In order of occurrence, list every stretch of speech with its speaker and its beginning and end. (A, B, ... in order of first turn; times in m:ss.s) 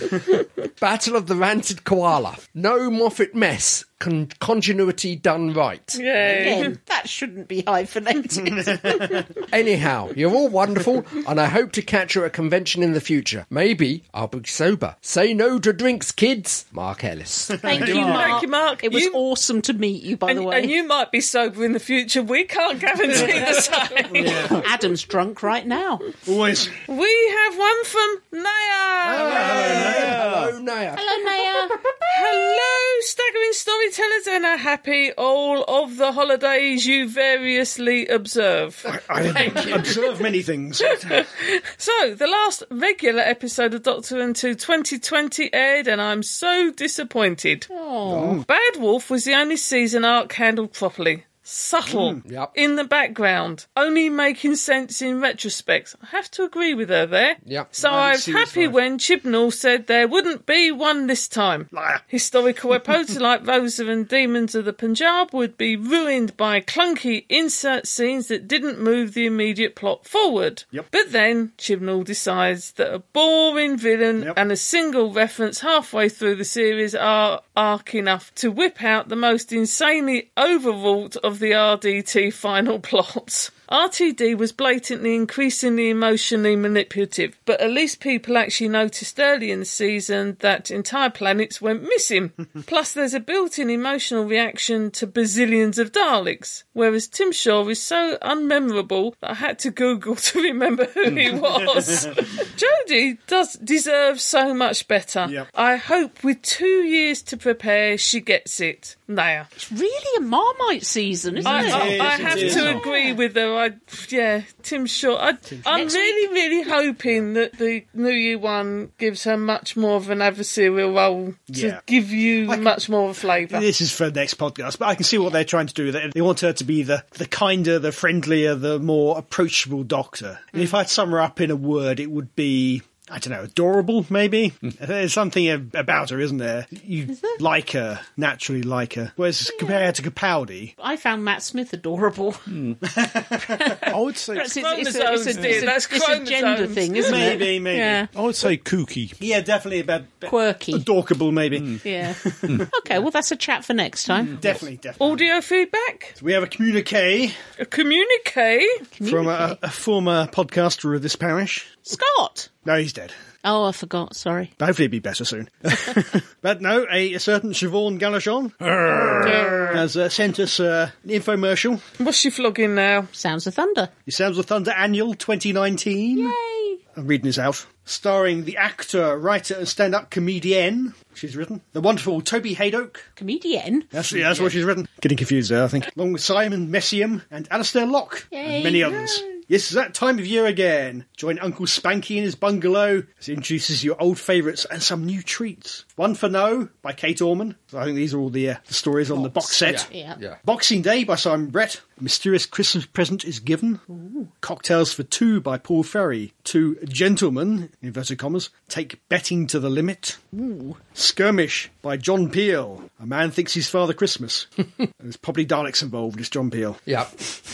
0:00.8-0:06.2 A
0:05.9-0:06.7 B
0:06.4-0:09.1 C
0:08.6-0:09.2 D
0:09.5-0:18.2 A
0:17.6-0:18.4 D
0:17.6-0:20.7 C
0:17.7-0:19.2 B
0:20.2-0:24.5 B
0:23.5-0:26.1 C
0:24.2-0:24.6 D
0:26.2-0:26.8 D
0:26.9-0:30.1 B
0:29.0-0:32.2 A
0:29.1-0:30.2 D
0:31.0-0:31.8 C
0:32.1-0:38.9 B
0:38.9-0:41.2 D
0:39.2-0:39.9 A
0:41.1-0:47.7 B
0:47.7-0:48.4 C
0:48.1-0:48.4 D
0:48.4-1:49.5 B
0:51.9-0:52.2 D
0:52.2-0:52.5 A
0:57.4-0:57.7 A
0:57.8-0:58.8 D
1:01.7-1:02.0 D
1:41.8-1:42.1 D
1:49.6-1:53.2 C
1:51.4-1:52.8 D
1:51.4-2:03.7 B
1:52.5-1:52.8 E
1:55.5-1:56.0 D
1:55.7-1:56.2 C
2:01.5-2:01.8 D
2:02.4-2:02.7 D
2:03.5-2:20.7 D
2:19.5-2:19.9 C
2:20.8-2:22.5 C
2:22.5-2:22.8 E
2:22.8-2:23.8 D
2:23.4-2:28.1 C
2:23.9-2:24.5 E
2:24.5-2:27.1 B
2:25.4-2:25.6 E
2:27.0-2:28.1 D
2:28.1-2:29.2 E
2:29.2-2:32.6 D
2:30.2-2:30.9 C
2:31.8-2:34.4 C
2:34.3-2:35.2 D
2:35.0-2:36.2 B
2:36.2-2:37.4 D
2:37.6-2:38.8 B
2:38.9-2:39.6 C
2:39.0-2:41.8 D
2:41.8-2:42.5 C
2:42.6-2:43.1 D
2:43.4-2:44.5 C
2:44.6-2:51.8 D
2:49.2-2:49.8 B
2:52.0-2:53.1 B
2:53.1-2:53.9 C
2:54.0-2:56.4 D
2:56.2-2:56.8 C
2:56.9-3:03.1 D
3:03.2-3:03.9 C
3:03.9-3:23.8 D
3:08.3-3:09.3 C
3:19.1-3:20.2 C
3:19.6-3:20.4 A
3:23.9-3:24.3 C
3:24.4-3:30.2 D
3:30.3-3:30.8 C
3:31.0-3:34.5 D
3:35.0-3:36.8 D
3:36.9-3:37.1 A